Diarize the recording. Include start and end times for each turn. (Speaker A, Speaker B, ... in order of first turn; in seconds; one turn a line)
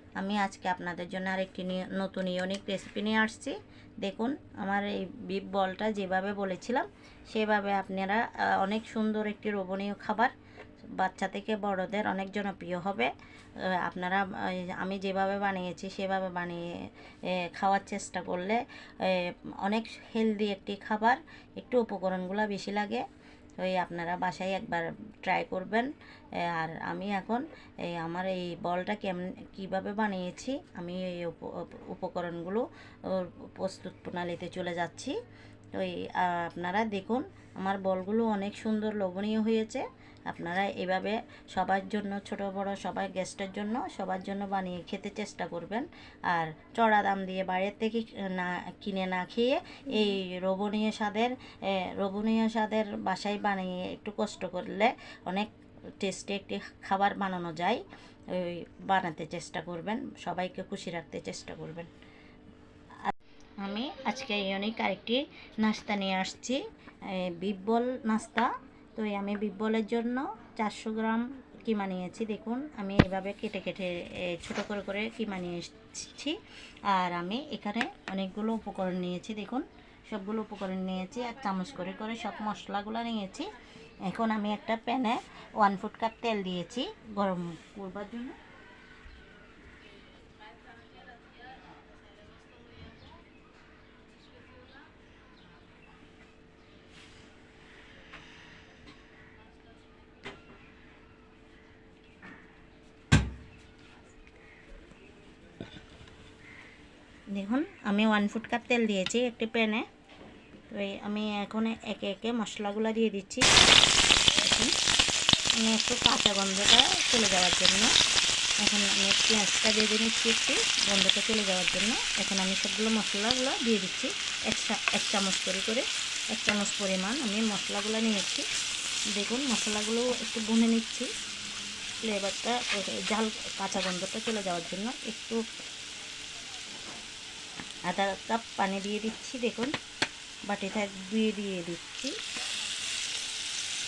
Speaker A: 0.2-10.3
Speaker A: 10.9-16.6
Speaker A: 17.2-23.0
Speaker A: 23.6-35.1
Speaker A: 35.7-55.5
Speaker A: 56.0-61.9
Speaker A: 63.0-88.4
Speaker A: 107.3-109.9
Speaker A: 110.7-113.5
Speaker A: 114.3-114.7
Speaker A: 115.6-117.9
Speaker A: 118.6-128.4
Speaker A: 129.1-131.1
Speaker A: 132.0-135.4
Speaker A: 137.8-139.7
Speaker A: 140.5-142.2